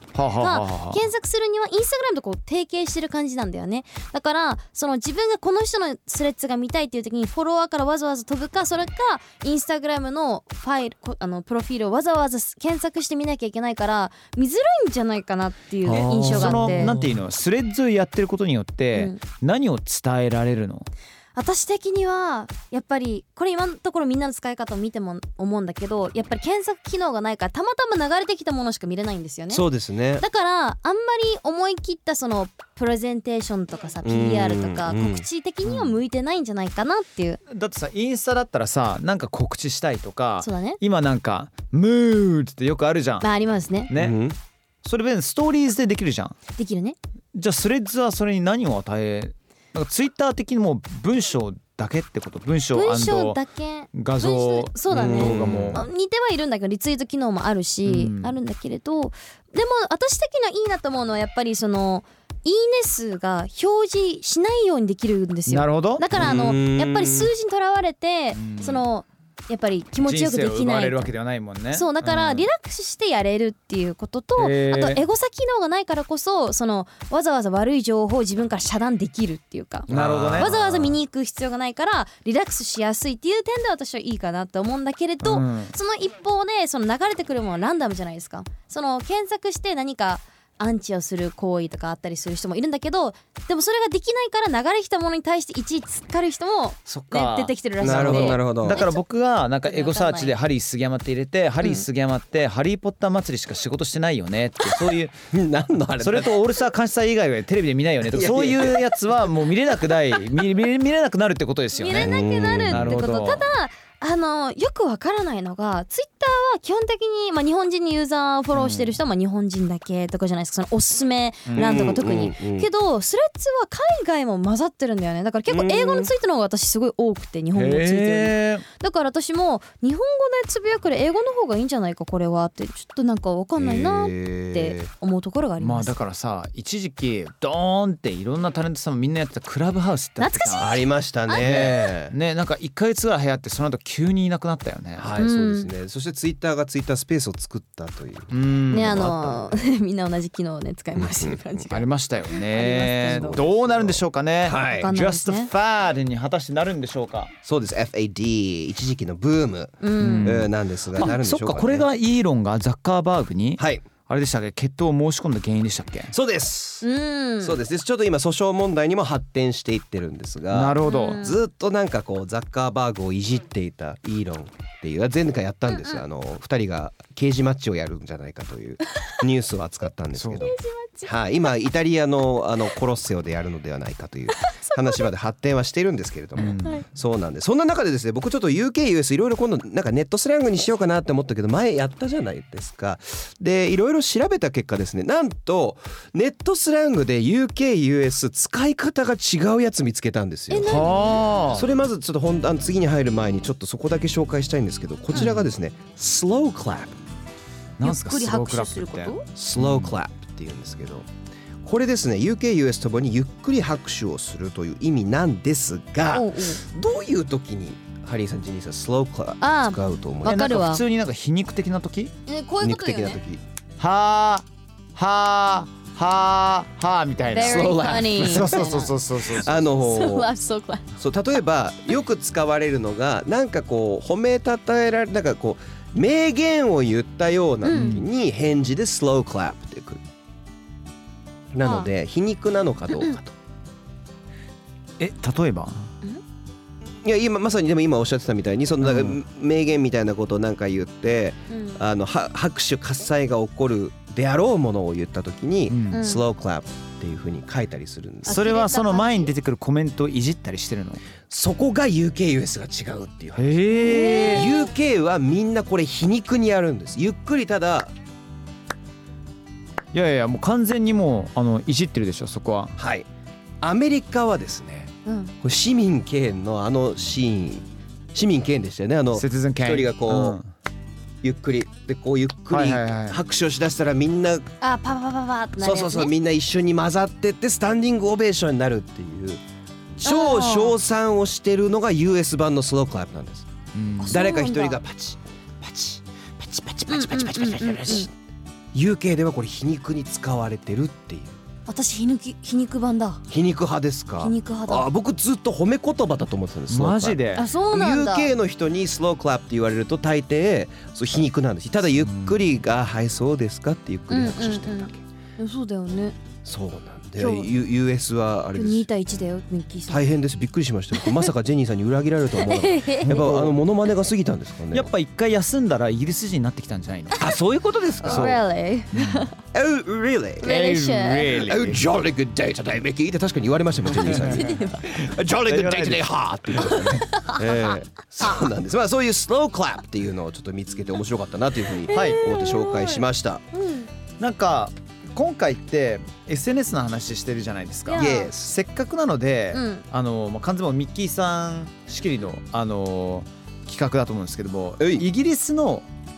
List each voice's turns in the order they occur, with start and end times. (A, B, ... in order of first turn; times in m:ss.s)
0:00.1-0:01.0 A
0:00.4-0:17.0 B
0:15.8-0:17.1 C
0:15.9-0:20.9 A
0:18.9-0:19.2 B
0:21.3-0:29.7 B
0:29.5-0:30.2 C
0:30.2-0:37.4 B
0:34.0-0:35.2 C
0:35.6-0:36.0 A
0:37.5-0:43.3 A
0:40.4-0:40.8 B
0:43.2-0:43.9 B
0:43.9-0:44.2 A
0:43.9-0:44.4 C
0:44.8-0:46.3 A
0:46.6-0:47.0 B
0:47.3-0:53.4 A
0:52.7-1:11.1 B
0:53.9-0:55.8 A
0:54.9-0:55.8 C
0:57.8-0:58.3 A
1:05.5-1:06.0 A
1:06.1-1:07.3 C
1:08.3-1:08.8 A
1:10.0-1:12.5 A
1:11.7-1:39.0 B
1:14.4-1:15.0 A
1:19.9-1:20.8 C
1:19.9-1:20.9 A
1:25.2-1:25.7 A
1:36.9-1:45.2 A
1:37.8-1:38.8 C
1:39.6-1:40.3 B
1:45.3-1:46.4 C
1:46.0-1:53.5 A
1:48.1-1:48.9 C
1:51.7-2:16.0 B
1:51.9-1:52.9 C
1:58.5-1:59.0 A
2:01.4-2:01.9 A
2:01.5-2:02.7 C
2:05.5-2:06.1 C
2:07.5-2:08.6 A
2:13.6-2:14.9 C
2:15.6-2:20.7 A
2:20.2-2:21.8 B
2:20.6-2:22.1 C
2:21.4-2:25.1 A
2:25.0-2:29.7 C
2:25.2-2:25.7 B
2:28.3-2:29.1 A
2:28.7-2:33.4 B
2:30.9-2:31.6 C
2:31.7-2:37.3 A
2:33.2-2:34.9 C
2:34.7-2:35.5 B
2:37.4-2:41.8 C
2:39.8-2:40.3 B
2:40.0-2:46.1 A
2:43.6-2:43.8 C
2:46.1-2:46.9 C
2:46.8-2:47.6 B
2:47.4-3:20.9 C
2:50.5-2:51.2 A
2:50.8-2:51.4 B
2:55.7-2:56.0 B
3:00.1-3:00.5 A
3:00.4-3:01.1 B
3:04.3-3:05.1 B
3:06.4-3:06.8 A
3:06.4-3:06.8 B
3:20.5-3:21.4 B
3:20.6-3:21.7 A
3:21.5-3:27.0 C
3:25.1-3:25.4 B
3:27.8-3:30.0 A
3:27.8-3:29.2 B
3:29.4-3:31.1 C
3:31.6-3:40.6 C
3:36.1-3:36.6 B
3:39.4-3:40.8 B
3:40.2-3:42.1 A
3:42.2-3:43.2 B
3:42.6-3:43.4 C
3:43.8-3:49.6 A
3:47.3-3:49.0 B
3:47.4-3:48.7 C
3:49.3-3:50.3 C
3:49.8-3:50.8 B
3:51.0-4:00.0 C
3:57.6-3:57.9 B
3:57.7-3:58.1 A
4:01.5-4:03.3 C
4:01.6-4:01.9 B
4:05.0-4:05.9 A
4:07.0-4:18.4 C
4:08.8-4:09.2 A
4:11.5-4:11.8 B
4:15.7-4:16.0 A
4:15.9-4:16.2 B
4:18.2-4:19.3 B
4:18.2-4:21.0 A
4:21.3-4:23.5 C
4:23.4-4:24.5 A
4:23.7-4:24.7 B
4:24.3-4:27.9 C
4:29.9-4:32.7 A
4:32.8-4:33.1 C
4:33.6-4:40.4 C
4:35.0-4:35.3 B
4:39.1-4:40.5 A
4:41.2-4:44.5 C
4:42.5-4:43.2 A
4:44.6-4:46.1 B
4:45.6-4:49.4 C
4:50.0-4:53.5 C
4:50.0-4:50.7 B
4:53.7-4:54.2 A
4:54.0-4:54.8 B
4:54.1-4:58.1 C
4:56.9-4:58.1 B
4:58.7-5:01.4 C
5:01.7-5:03.2 B
5:03.3-5:15.0 C
5:04.2-5:04.9 B
5:06.7-5:07.4 A
5:07.3-5:08.3 B
5:12.0-5:12.4 A
5:14.1-5:16.2 B
5:16.4-5:18.8 C
5:17.2-5:17.5 B
5:18.5-5:20.1 B
5:19.9-5:24.9 C
5:21.0-5:21.3 B
5:22.4-5:23.1 B
5:23.1-5:23.5 A
5:24.7-5:27.3 A
5:27.2-5:28.4 C
5:28.0-5:29.2 A
5:28.0-5:29.3 B
5:29.5-5:30.5 C
5:30.4-5:31.4 B
5:30.4-5:31.8 A
5:31.3-5:43.4 C
5:34.0-5:34.4 A
5:34.2-5:34.8 B
5:35.0-5:37.1 A
5:36.9-5:37.7 B
5:41.9-5:43.9 B
5:41.9-5:42.3 A
5:44.2-5:55.8 A
5:47.9-5:48.3 B
5:47.9-5:48.5 C
5:49.5-5:49.8 B
5:54.8-5:55.0 C